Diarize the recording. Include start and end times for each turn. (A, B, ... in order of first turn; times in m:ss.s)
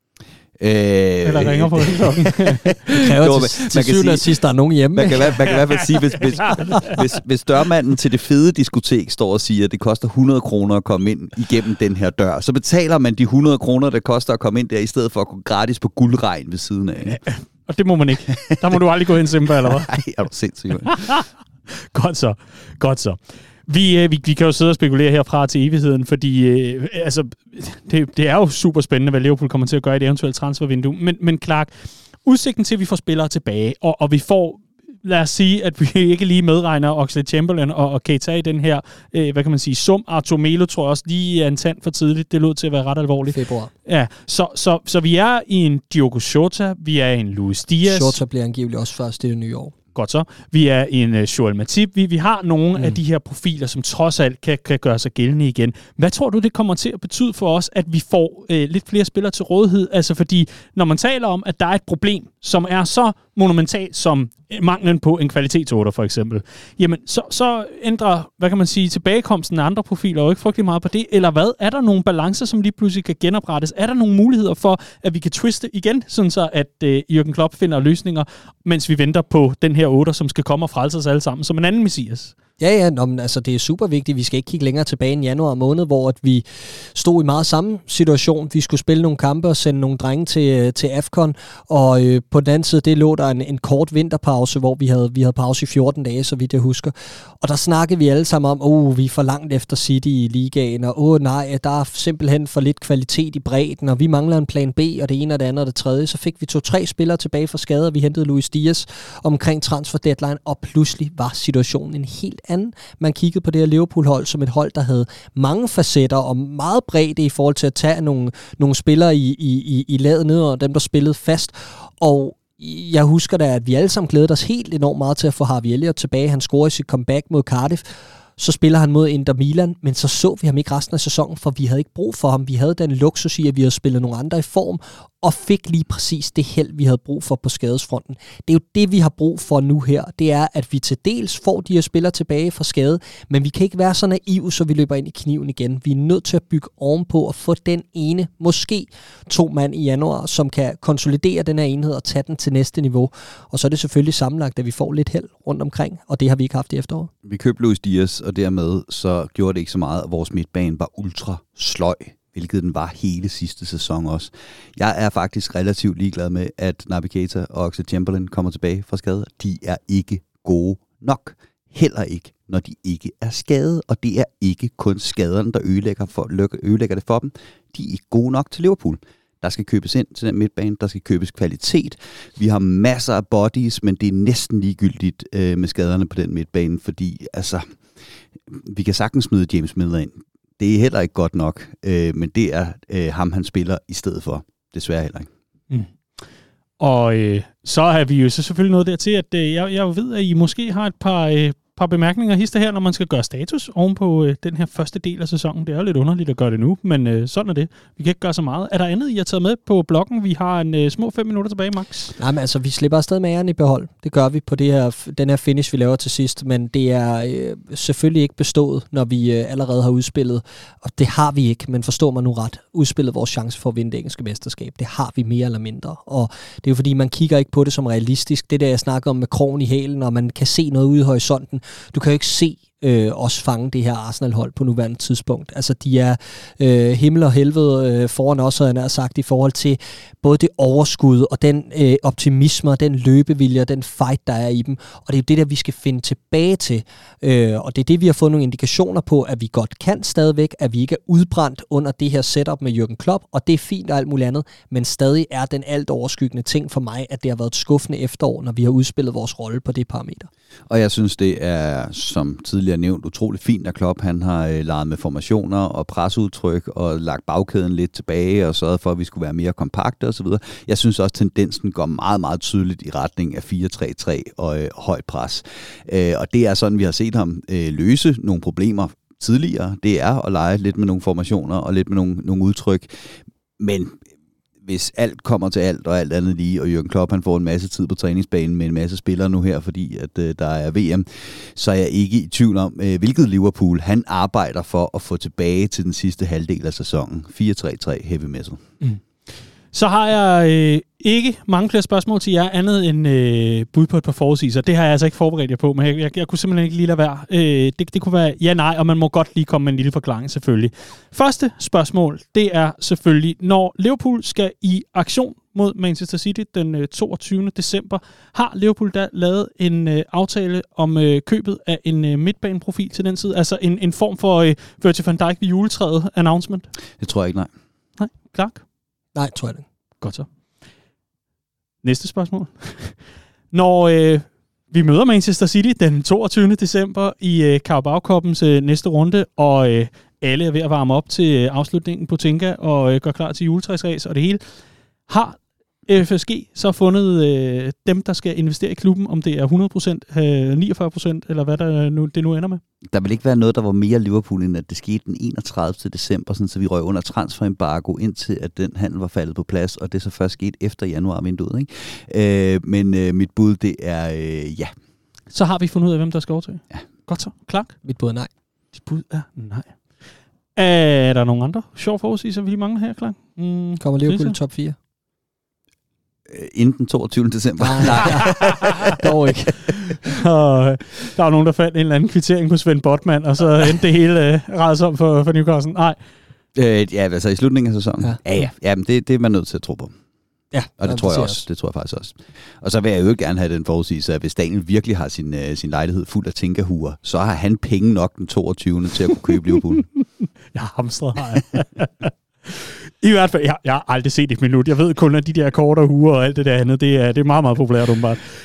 0:00.6-0:04.4 A
0:01.2-0:02.8 B
0:02.9-0:05.4 C
0:04.9-0:17.2 A
0:05.5-0:07.0 B
0:17.0-0:19.9 B
0:18.3-0:18.8 A
0:19.4-0:21.2 A
0:20.8-0:31.7 B
0:32.2-0:48.2 B
0:43.3-0:43.7 C
0:47.8-0:49.7 C
0:49.9-1:22.3 B
1:22.6-2:37.1 C
2:37.2-3:07.7 A
3:08.5-3:15.3 A
3:16.8-3:32.1 B
3:32.2-4:20.3 C
4:20.7-4:44.0 A
4:44.6-4:58.6 A
4:59.7-5:26.7 B
5:27.0-5:27.5 A
5:28.0-5:28.6 B
5:29.1-5:29.6 C
5:30.0-5:30.3 B
5:31.8-5:33.0 B
5:33.5-5:44.4 B
5:45.1-5:52.6 B
5:52.9-6:04.7 A
6:05.3-6:07.7 B
6:07.8-6:08.3 C
6:08.7-6:09.8 B
6:10.6-6:14.4 B
6:13.8-6:14.8 C
6:16.3-6:19.0 A
6:17.6-6:19.7 C
6:18.0-6:18.9 B
6:20.0-6:26.0 B
6:26.5-6:29.9 A
6:30.5-6:31.4 C
6:30.8-6:39.9 A
6:40.0-6:48.2 B